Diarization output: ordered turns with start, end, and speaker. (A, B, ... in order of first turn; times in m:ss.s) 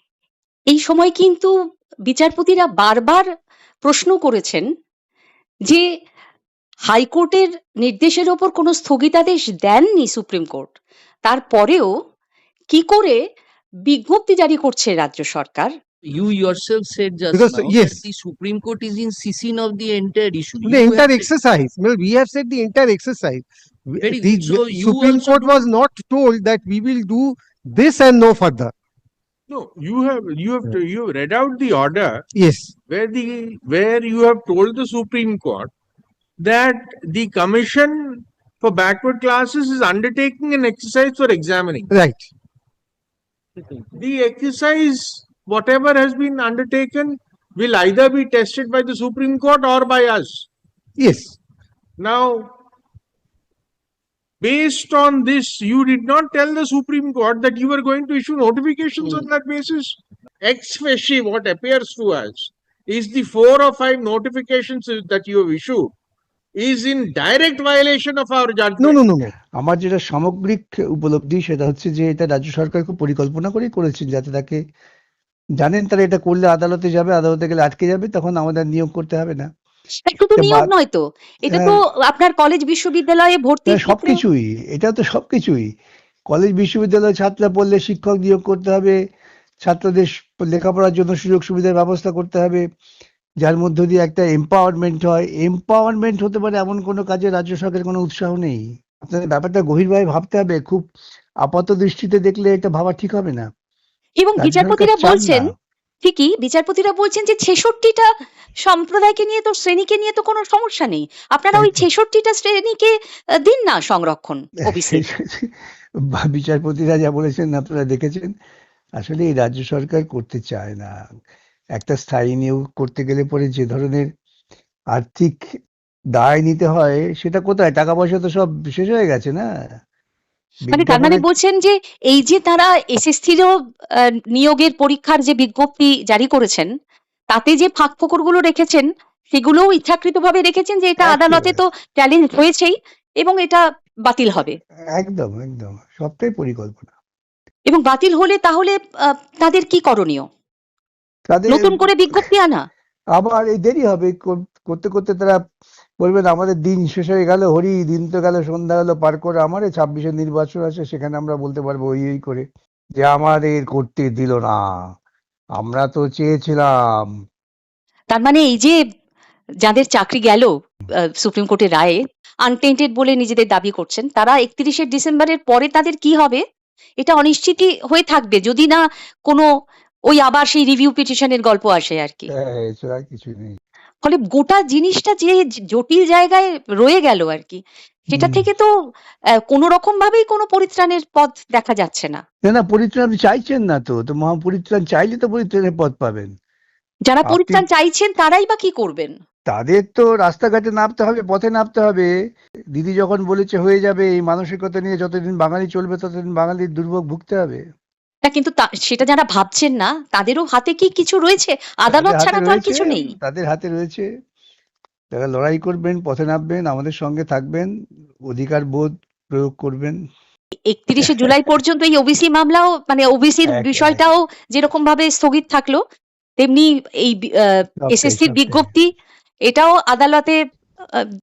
0:00.7-0:01.5 A
0:02.1-0:03.2 A
0:03.8-0:04.6 A
0:06.9-0:10.7 A
0:11.2-0:11.9 A
0:12.7-0:13.2 A
0:13.9-0:15.7 A
0:16.0-0:21.3 B
0:17.3-0:18.0 C
0:20.6-0:28.7 C
0:24.0-0:25.6 B
0:29.5-0:32.2 D
0:32.3-0:32.7 C
0:32.9-0:35.7 D
0:36.4-0:41.9 D
0:41.9-0:42.3 C
0:43.9-0:50.5 D
0:51.0-0:51.3 C
0:52.0-0:52.5 D
0:54.4-1:05.9 D
1:06.6-1:09.0 D
1:08.8-1:09.3 C
1:09.6-1:14.6 E
1:15.6-1:19.5 E
1:20.1-1:24.2 A
1:20.4-1:20.7 E
1:21.5-1:21.7 E
1:23.7-1:25.7 E
1:26.3-1:29.0 E
1:29.6-1:32.6 E
1:33.4-1:40.8 E
1:41.4-1:43.4 E
1:44.2-1:45.5 A
1:44.4-1:45.5 E
1:46.0-1:48.1 A
1:48.6-1:55.0 A
1:51.5-1:51.8 E
1:54.8-1:55.5 E
1:56.1-1:58.3 E
1:59.0-2:00.9 E
2:01.8-2:04.1 E
2:04.9-2:05.4 E
2:06.2-2:09.4 E
2:10.7-2:11.2 E
2:10.7-2:16.7 A
2:17.3-2:24.6 A
2:21.0-2:21.6 E
2:24.9-2:26.9 E
2:27.7-2:30.2 A
2:31.3-2:32.2 E
2:31.5-2:32.6 A
2:33.2-2:35.4 E
2:36.0-2:42.4 E
2:43.0-2:44.6 E
2:45.6-2:46.7 E
2:48.1-2:48.8 A
2:49.6-2:50.5 A
2:51.2-2:56.4 A
2:57.0-2:59.5 A
3:00.1-3:02.3 A
3:02.4-3:03.6 E
3:04.0-3:08.7 A
3:08.2-3:08.4 E
3:09.5-3:12.2 A
3:12.4-3:16.3 E
3:17.1-3:19.1 A
3:17.2-3:17.6 E
3:19.5-3:22.1 E
3:22.7-3:27.6 E
3:28.2-3:33.1 A
3:31.9-3:34.1 E
3:35.1-3:37.7 E
3:38.3-3:40.0 E
3:40.7-3:45.8 A
3:43.5-3:44.1 E
3:46.4-3:48.9 A
3:47.8-3:48.7 E
3:49.4-3:50.4 A